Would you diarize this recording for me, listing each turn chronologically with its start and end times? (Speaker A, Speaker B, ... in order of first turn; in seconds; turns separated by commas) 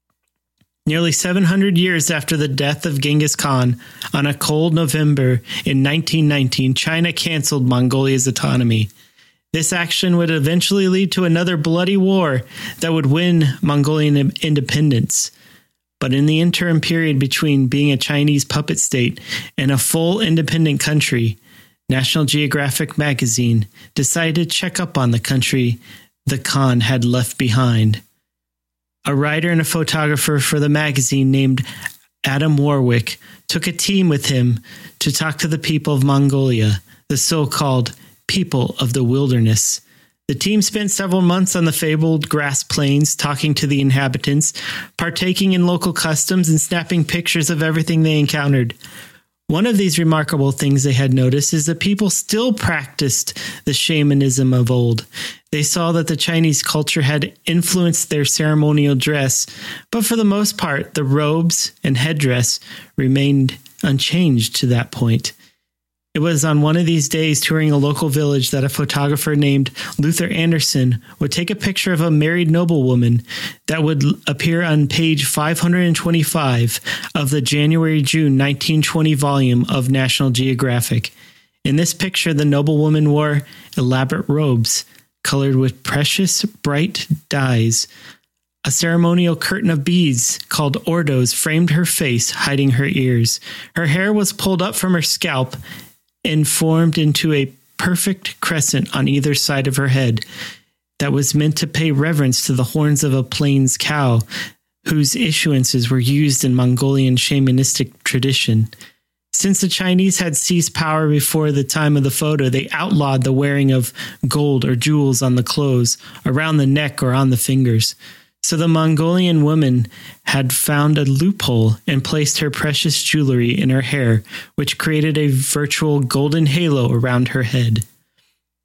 Speaker A: 0.9-8.9, Speaker A: 9.5-15.3, Speaker A: 16.0-21.4, Speaker A: 21.9-28.0, Speaker A: 29.1-31.6, Speaker A: 32.2-48.8, Speaker A: 49.5-65.3, Speaker A: 66.1-81.1, Speaker A: 81.6-87.9, Speaker A: 88.6-95.6, Speaker A: 96.2-100.2, Speaker A: 101.0-104.2, Speaker A: 104.8-108.7, Speaker A: 109.3-127.8